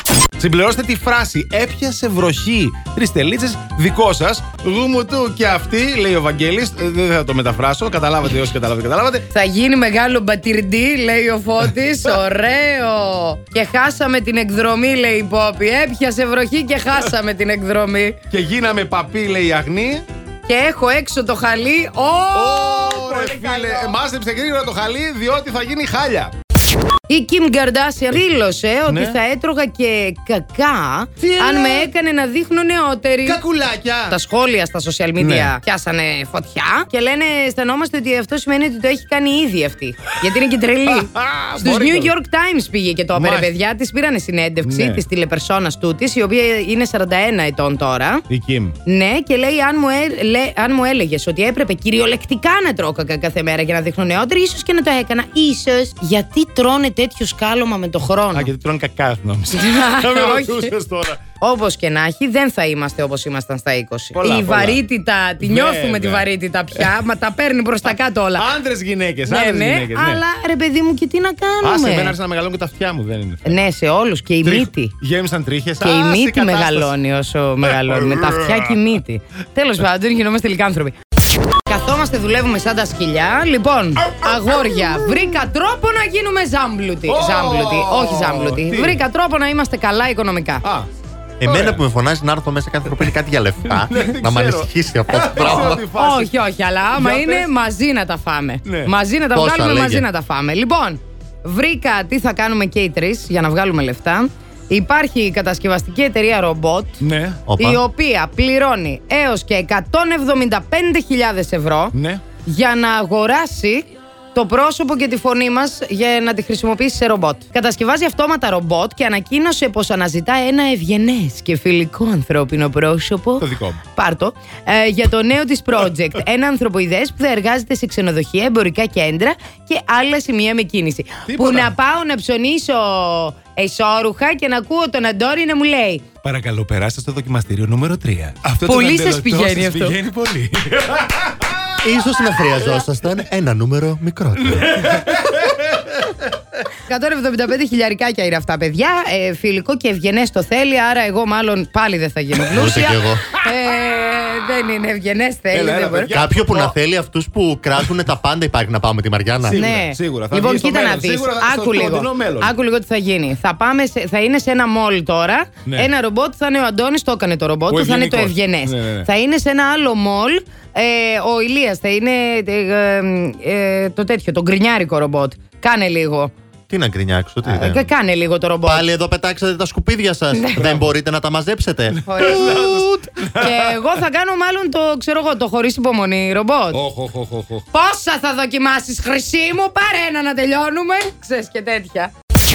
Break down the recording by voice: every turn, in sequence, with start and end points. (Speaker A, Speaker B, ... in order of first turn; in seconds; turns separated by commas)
Speaker A: 0.4-9.2, Speaker B: 9.3-18.2, Speaker A: 18.3-20.0, Speaker B: 20.4-24.0, Speaker A: 22.3-26.3, Speaker B: 27.1-33.4, Speaker A: 28.9-29.2, Speaker A: 31.2-31.9, Speaker A: 33.2-34.2, Speaker B: 34.1-48.2, Speaker A: 35.2-35.5, Speaker A: 40.9-42.1, Speaker A: 43.1-43.5, Speaker A: 44.6-45.0, Speaker A: 48.3-48.7, Speaker B: 48.8-58.5, Speaker A: 58.3-61.2, Speaker B: 59.5-60.7, Speaker B: 61.4-68.5, Speaker A: 64.1-64.8, Speaker A: 65.4-66.9, Speaker A: 68.4-70.2, Speaker B: 69.2-72.2, Speaker A: 71.6-73.6, Speaker B: 73.4-74.9, Speaker A: 74.4-76.9, Speaker B: 75.8-80.9, Speaker A: 77.6-78.8, Speaker B: 81.6-90.6, Speaker A: 87.1-89.0, Speaker C: 91.4-95.8, Speaker A: 91.4-91.8, Speaker A: 93.7-96.3, Speaker B: 95.3-107.0, Speaker A: 96.9-97.5, Speaker A: 98.7-98.9, Speaker C: 99.3-100.0, Speaker A: 107.0-107.4, Speaker C: 107.5-107.8, Speaker B: 107.6-136.0, Speaker A: 111.9-112.2, Speaker A: 123.4-123.8, Speaker A: 131.3-131.7, Speaker A: 136.2-141.5, Speaker B: 138.6-140.0, Speaker C: 141.8-144.7, Speaker A: 144.4-146.1, Speaker B: 146.8-156.1, Speaker C: 152.5-153.2, Speaker A: 155.5-156.7, Speaker C: 156.1-159.7, Speaker B: 159.4-176.3, Speaker A: 159.4-162.5, Speaker A: 167.7-169.1, Speaker C: 176.7-177.9, Speaker B: 177.4-178.9, Speaker C: 178.7-182.0, Speaker B: 180.3-180.6, Speaker A: 180.6-180.8, Speaker B: 182.1-186.8, Speaker A: 182.1-183.6, Speaker A: 186.7-187.6, Speaker B: 187.7-192.1